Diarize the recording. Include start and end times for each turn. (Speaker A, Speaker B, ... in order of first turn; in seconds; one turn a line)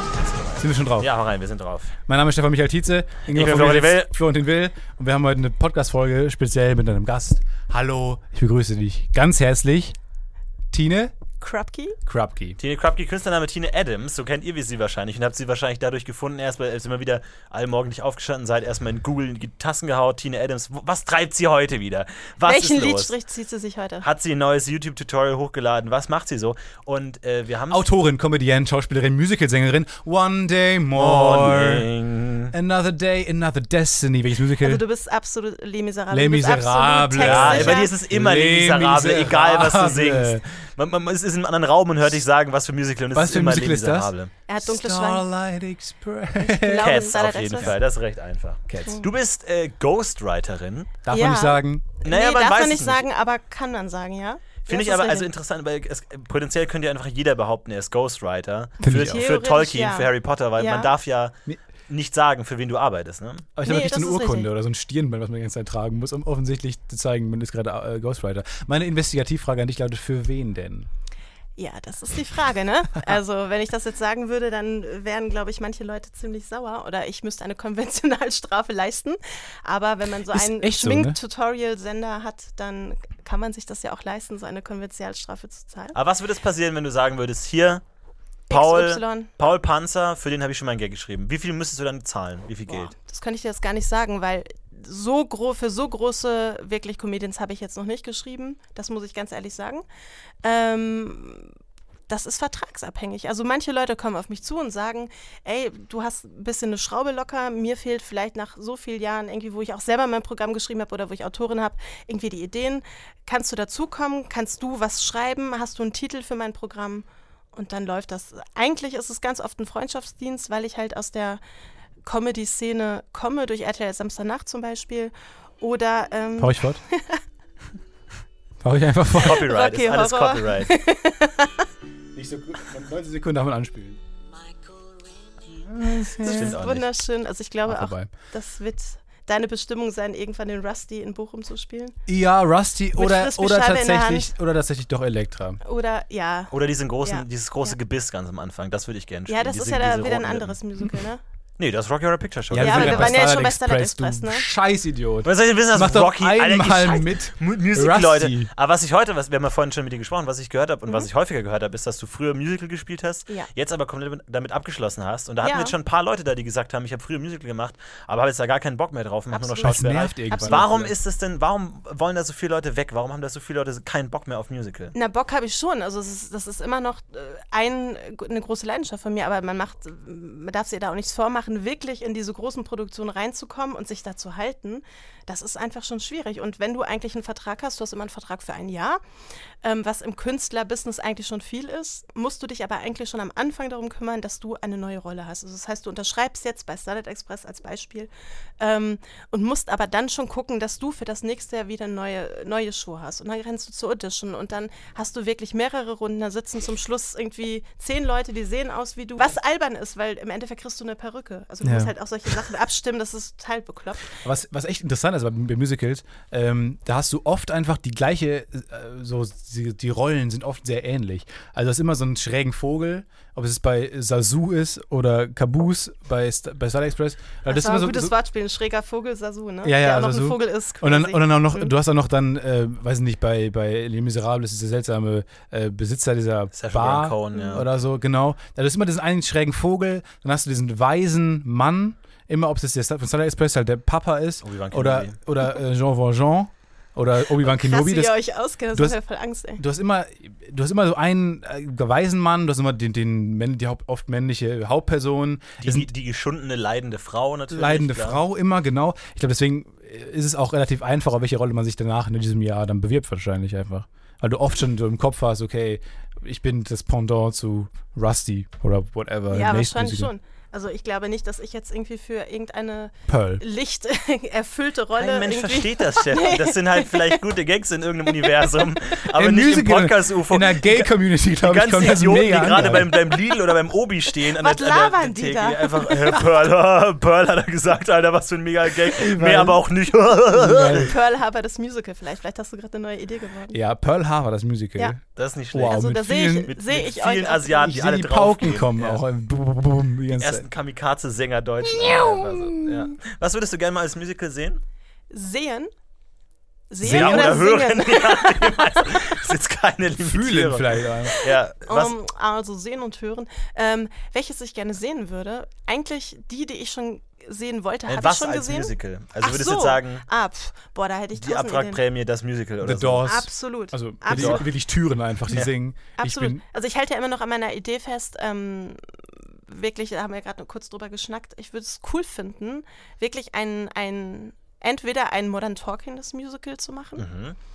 Speaker A: 0.3-1.9
Speaker B: 0.6-1.1
Speaker B: 2.1-10.0
Speaker A: 3.3-4.1
Speaker B: 10.7-11.2
Speaker C: 11.4-12.0
Speaker B: 12.1-12.6
Speaker A: 12.6-23.2
Speaker C: 22.4-24.1
Speaker A: 24.0-27.9
Speaker B: 27.7-31.9
Speaker A: 30.9-32.5
Speaker B: 32.5-34.8
Speaker C: 34.6-37.9
Speaker B: 36.1-40.5
Speaker A: 37.2-44.3
Speaker B: 43.1-47.8
Speaker C: 44.5-45.2
Speaker C: 46.4-47.8
Speaker A: 46.8-51.0
Speaker B: 48.7-49.0
Speaker B: 51.0-51.9
Speaker C: 51.1-55.3
Speaker A: 52.0-53.1
Speaker A: 54.7-61.3
Speaker B: 58.8-59.3
Speaker C: 59.0-60.9
Speaker A: 61.9-63.5
Speaker B: 63.6-70.9
Speaker C: 63.6-64.5
Speaker C: 71.6-86.0
Speaker B: 80.3-81.2
Speaker A: 85.9-87.8
Speaker C: 88.5-89.3
Speaker A: 88.5-92.9
Speaker C: 92.7-99.9
Speaker C: 100.4-101.5
Speaker C: 102.1-121.4
Speaker C: 122.0-127.2
Speaker B: 126.4-126.8
Speaker B: 128.6-129.4
Speaker A: 129.2-130.7
Speaker C: 129.2-131.7
Speaker B: 132.1-134.0
Speaker B: 135.5-136.6
Speaker C: 136.2-142.0
Speaker A: 136.3-136.9
Speaker B: 137.7-138.1
Speaker B: 142.1-145.6
Speaker C: 142.9-144.3
Speaker C: 145.6-147.8
Speaker A: 146.5-150.6
Speaker C: 149.3-151.2
Speaker A: 151.6-153.2
Speaker B: 152.5-158.5
Speaker C: 152.6-154.5
Speaker A: 155.2-174.9
Speaker C: 165.4-165.8
Speaker C: 169.3-170.7
Speaker B: 169.6-170.9
Speaker C: 174.9-189.0
Speaker C: 189.6-214.2
Speaker B: 211.6-211.9
Speaker B: 214.2-228.1
Speaker C: 227.5-231.7
Speaker B: 229.6-248.2
Speaker A: 236.5-237.7
Speaker C: 237.3-237.6
Speaker A: 244.4-245.2
Speaker C: 247.4-249.6
Speaker B: 248.7-249.0
Speaker B: 249.6-255.9
Speaker A: 255.6-258.2
Speaker B: 257.5-270.1
Speaker C: 269.3-277.2
Speaker B: 273.1-273.4
Speaker A: 275.0-290.9
Speaker B: 279.1-282.9
Speaker C: 284.3-286.2
Speaker B: 288.9-289.6
Speaker B: 290.3-290.9
Speaker C: 290.8-293.6
Speaker B: 293.5-295.0
Speaker A: 295.2-295.8
Speaker B: 295.5-296.6
Speaker C: 295.6-297.8
Speaker A: 296.4-299.0
Speaker B: 297.6-300.5
Speaker A: 300.2-304.6
Speaker B: 301.8-302.8
Speaker C: 305.1-305.7
Speaker C: 306.7-308.8
Speaker B: 306.8-307.4
Speaker A: 306.8-312.0
Speaker B: 310.0-311.2
Speaker C: 311.1-321.8
Speaker A: 317.9-320.1
Speaker A: 321.1-323.1
Speaker B: 322.6-326.4
Speaker C: 323.0-324.4
Speaker A: 324.1-324.4
Speaker C: 326.0-337.1
Speaker A: 337.0-337.4